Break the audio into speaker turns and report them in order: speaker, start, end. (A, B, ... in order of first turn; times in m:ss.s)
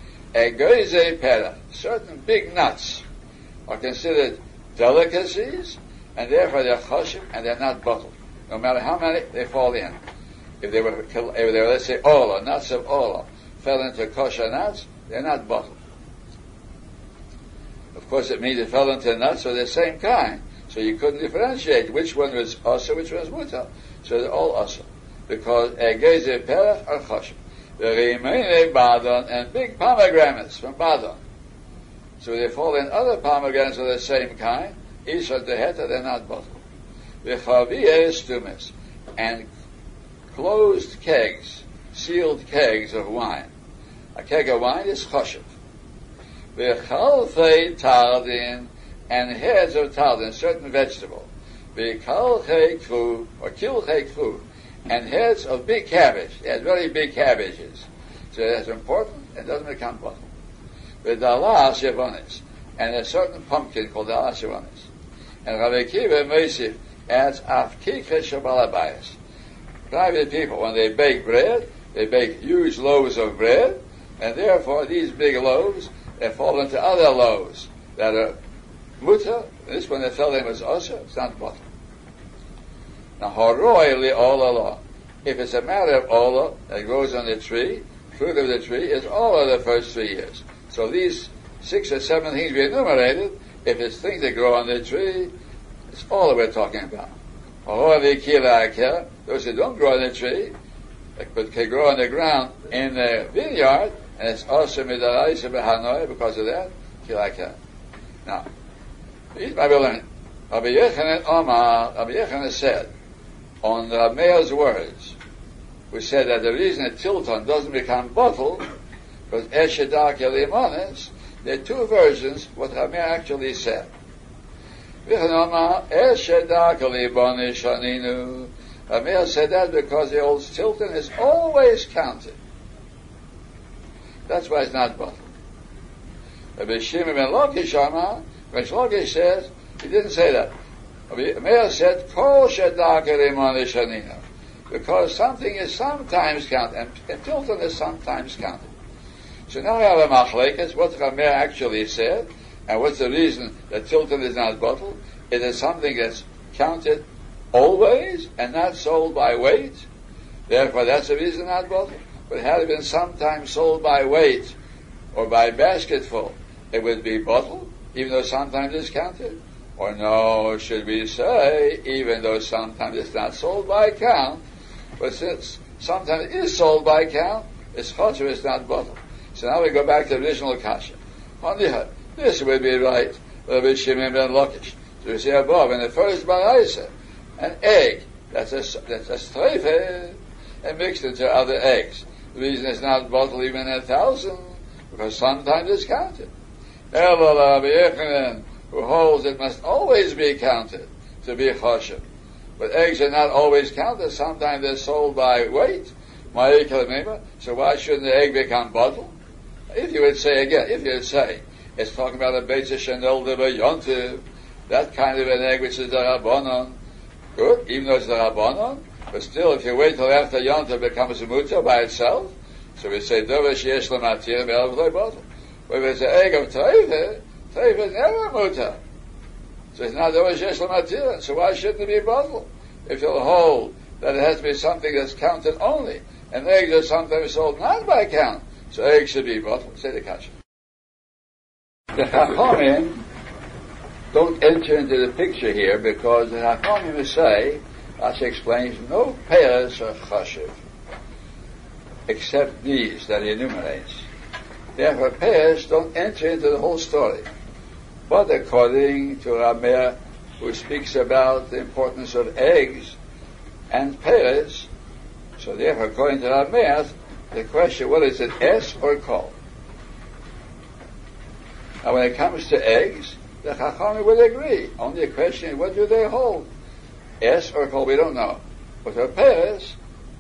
0:00.3-0:03.0 A
0:03.7-0:10.0 A
0:10.6-0:15.8 A
0:17.9-0:31.2 A
0:32.2-0:36.6 A
0:37.2-0:39.5 A
0:40.3-0:43.5 A
0:44.1-0:45.5 A
0:46.5-1:00.3 A
1:01.0-1:04.9 A
1:05.4-1:09.2 A
1:09.9-1:18.4 A
1:19.0-1:21.6 A
1:23.2-1:35.3 A
1:35.9-1:37.1 A
1:37.6-1:40.5 A
1:41.2-1:47.6 A
1:49.3-1:52.9 A
1:53.6-1:55.2 A
1:55.9-1:58.6 A
1:59.3-2:03.9 A
2:05.0-2:12.4 A
2:14.3-2:15.3 A
2:16.6-2:20.5 A
2:21.1-2:28.7 A
2:29.5-2:39.8 A
2:40.5-2:44.5 A
2:45.1-2:54.4 A
2:55.0-3:16.3 A
3:16.9-3:22.0 A
3:22.6-3:29.1 A
3:29.7-3:36.8 A
3:37.4-3:48.8 A
3:49.7-4:00.4 A
4:01.9-4:03.0 A
4:04.1-4:10.6 A
4:12.1-4:14.0 A
4:14.8-4:17.2 A
4:18.1-4:23.0 A
4:23.7-4:24.7 A
4:25.4-4:29.3 A
4:31.8-4:36.4 A
4:37.2-4:39.8 A